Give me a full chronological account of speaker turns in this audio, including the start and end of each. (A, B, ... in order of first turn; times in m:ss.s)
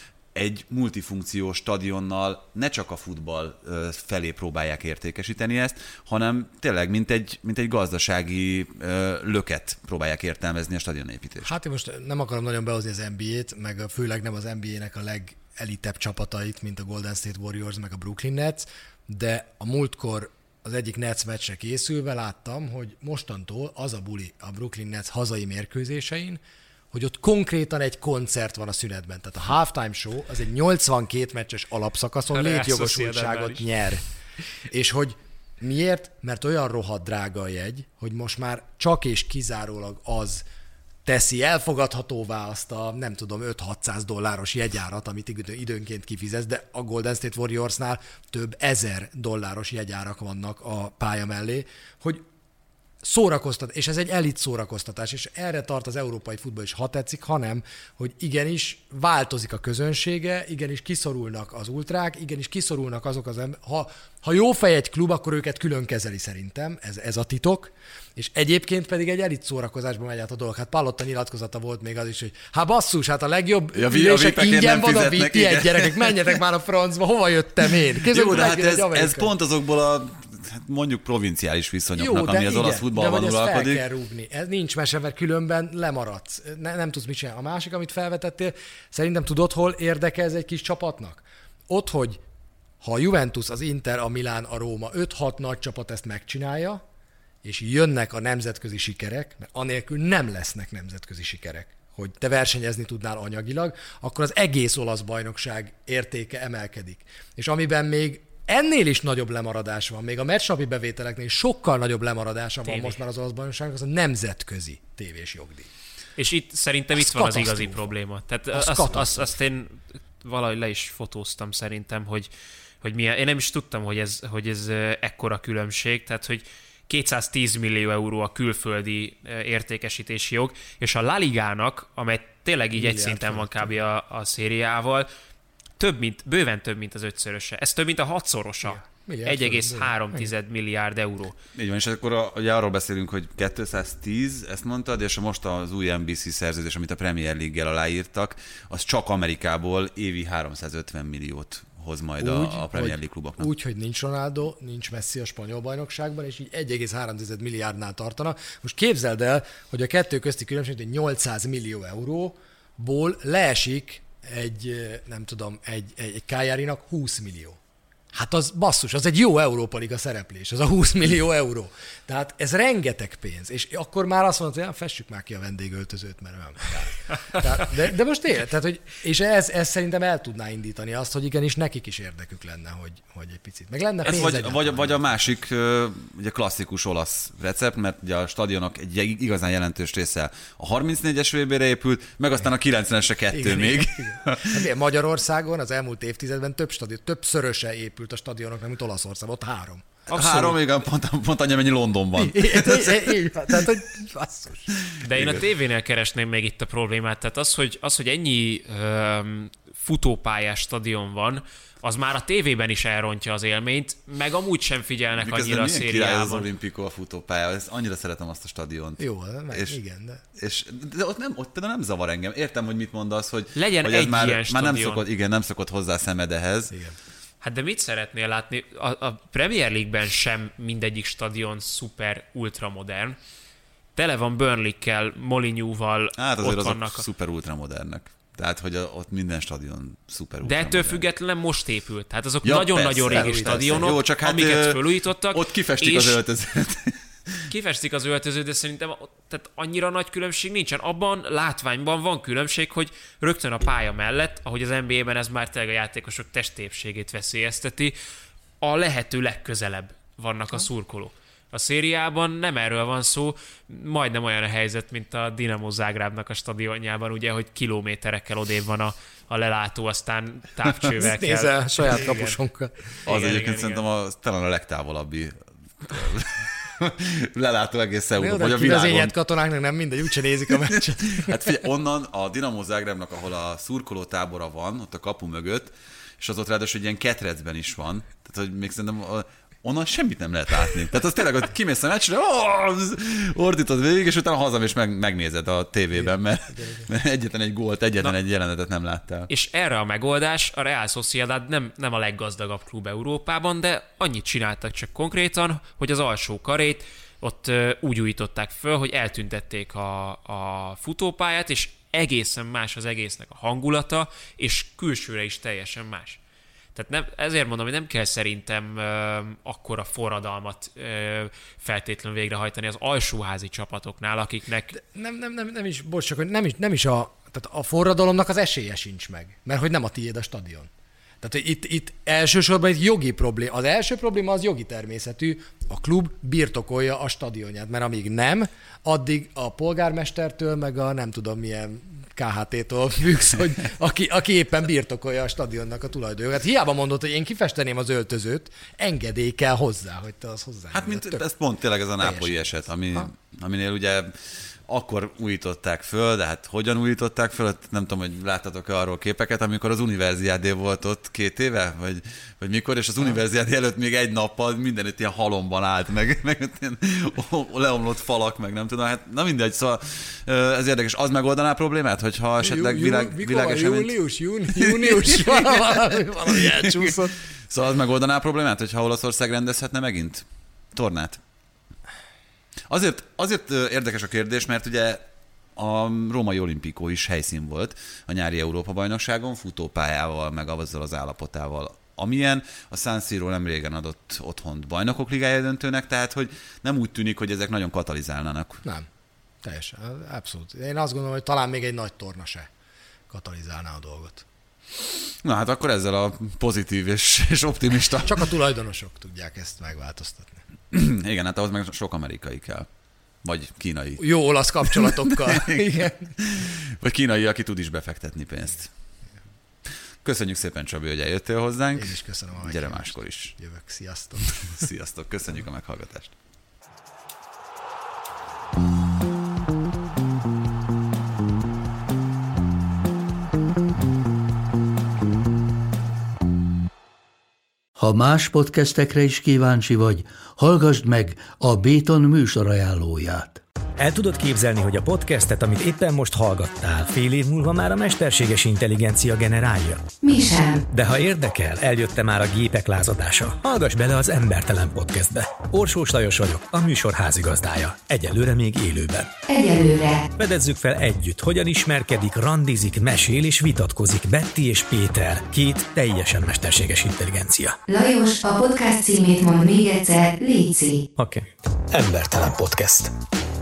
0:00.3-0:11.5 A
0:11.4-0:26.4 B
0:26.9-0:34.0 B
0:32.3-0:33.7 C
0:34.7-0:40.4 B
0:41.0-0:52.2 B
0:53.0-1:19.3 B
1:13.7-1:16.4 A
1:18.1-1:23.8 A
1:22.0-1:32.2 B
1:32.8-1:36.8 B
1:37.4-1:55.7 B
1:52.6-1:53.0 C
1:56.2-2:02.3 C
1:57.0-1:57.8 B
1:58.5-1:59.3 B
2:02.8-2:15.1 C
2:12.8-2:13.7 B
2:15.8-2:21.4 C
2:18.6-2:20.3 B
2:21.6-2:33.5 A
2:32.2-2:47.6 B
2:48.1-3:05.2 B
3:04.0-3:14.7 A
3:13.3-3:20.1 B
3:20.1-3:20.6 C
3:20.1-3:23.1 A
3:22.2-3:24.7 B
3:24.9-3:25.4 A
3:25.0-3:36.5 C
3:35.2-3:39.8 A
3:39.0-3:40.2 B
3:40.4-3:46.8 A
3:43.6-3:45.0 C
3:46.7-3:47.0 B
3:47.4-3:53.2 C
3:54.0-3:57.0 C
3:56.2-4:01.1 A
4:00.4-4:06.2 C
4:02.4-4:07.5 A
4:03.1-4:03.9 B
4:07.5-4:18.0 C
4:18.6-4:32.4 C
4:31.0-4:33.0 B
4:33.0-4:33.8 C
4:33.1-4:39.1 A
4:38.2-4:41.4 B
4:40.5-4:59.3 A
4:56.0-4:56.9 B
4:59.3-5:16.2 C
5:16.8-5:24.8 C
5:24.7-5:30.7 B
5:31.2-5:51.2 B
5:50.7-6:14.0 A
5:52.0-5:53.1 B
6:12.4-6:17.2 B
6:14.5-6:21.2 A
6:22.7-6:25.0 A
6:25.6-6:38.6 A
6:39.4-6:42.5 B
6:43.1-6:44.2 B
6:45.2-6:48.3 A
6:48.0-6:50.4 B
6:50.7-6:52.7 A
6:53.2-6:54.1 A
6:54.0-6:56.1 B
6:54.6-6:58.7 A
7:00.0-7:03.4 A
7:01.8-7:04.5 B
7:04.2-7:06.2 A
7:17.8-7:23.4 D
7:23.8-7:29.9 E
7:30.0-7:30.6 F
7:30.7-7:39.2 E
7:39.3-7:40.1 F
7:40.2-7:47.6 E
7:47.7-7:50.8 F
7:51.0-7:52.9 E